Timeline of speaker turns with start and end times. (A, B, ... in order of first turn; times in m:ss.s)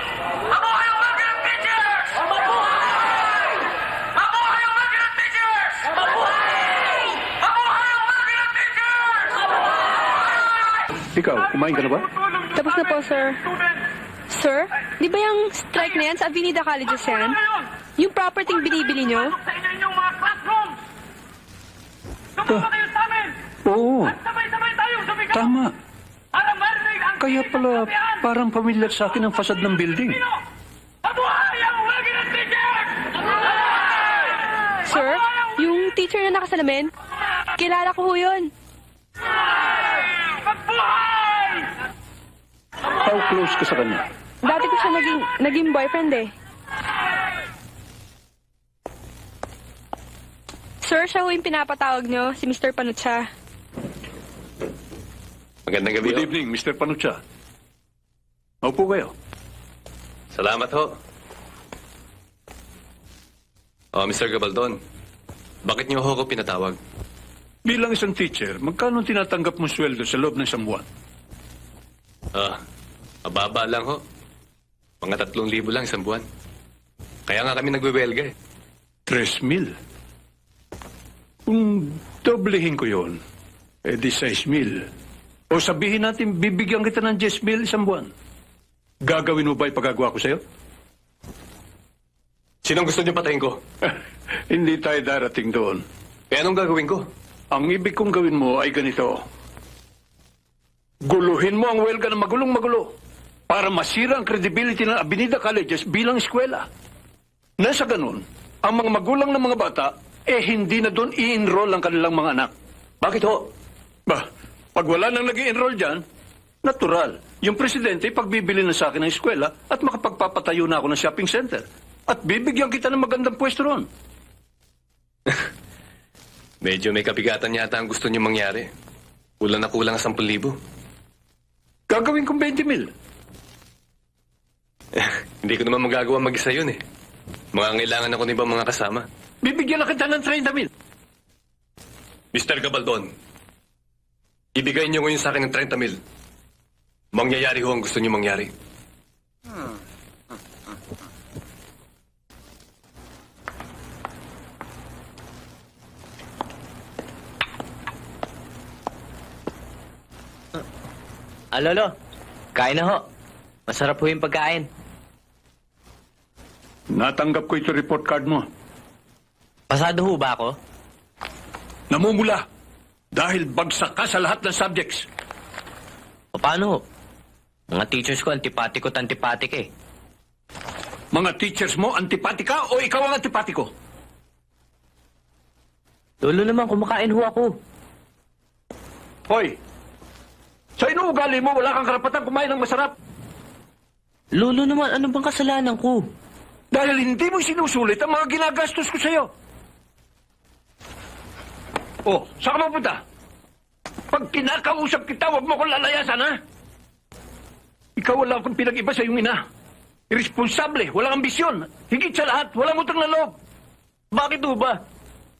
0:00.5-0:02.1 A
0:04.4-0:05.8 A
0:08.1-0:08.6 A
0:11.2-0:12.1 B
0:12.5-0:13.6 C
0:14.3-0:17.4 C
0:18.0-0:19.4 C
0:22.4-0:22.7 B
0:23.6-0:24.2 B
0:25.3-0:25.8 B
0:27.2-0:30.2 B
0:34.8-0:36.9 C
0:37.6-0:38.5 C
0:43.0-0:44.0 B
0:44.4-0:46.3 C
0:50.8-0:53.3 C
0:55.6-0:56.2 D
0:56.0-0:57.2 B
0:58.6-0:59.1 B
1:00.3-1:01.0 D
1:03.9-1:04.8 D
1:05.6-1:06.8 D
1:07.6-1:10.8 B
1:12.3-1:12.6 D
1:13.2-1:14.0 D
1:15.0-1:16.2 D
1:17.3-1:18.3 D
1:19.1-1:19.7 B
1:21.4-1:23.2 B
1:23.8-1:24.9 B
1:25.5-1:28.1 B
1:29.0-1:30.4 B
1:32.6-1:33.6 D
1:34.5-1:35.8 B
1:36.3-1:37.1 D
1:37.5-1:39.2 B
1:41.0-1:42.9 B
1:43.5-1:46.7 B
1:47.6-1:52.5 B
1:54.1-1:56.0 B
1:56.6-2:03.9 B
2:06.6-2:08.7 D
2:09.4-2:10.6 D
2:11.9-2:12.9 B
2:15.0-2:16.8 D
2:17.5-2:19.1 D
2:19.4-2:20.7 B
2:22.3-2:23.1 D
2:24.5-2:26.0 D
2:27.1-2:28.5 D
2:41.5-2:41.9 E
2:42.5-2:43.0 E
2:43.7-2:44.7 E
2:46.9-2:48.5 B
2:49.7-2:50.6 E
2:51.9-2:52.4 B
2:53.1-2:55.0 B
2:56.4-2:56.8 E
2:57.7-2:59.7 E
3:01.1-3:03.7 B
3:06.2-3:07.5 E
3:09.3-3:09.6 B
3:10.8-3:12.9 B
3:14.4-3:16.1 E
3:16.7-3:19.3 B
3:22.0-3:23.0 B
3:24.1-3:26.4 B
3:28.0-3:29.4 B
3:30.1-3:33.4 B
3:34.1-3:34.8 E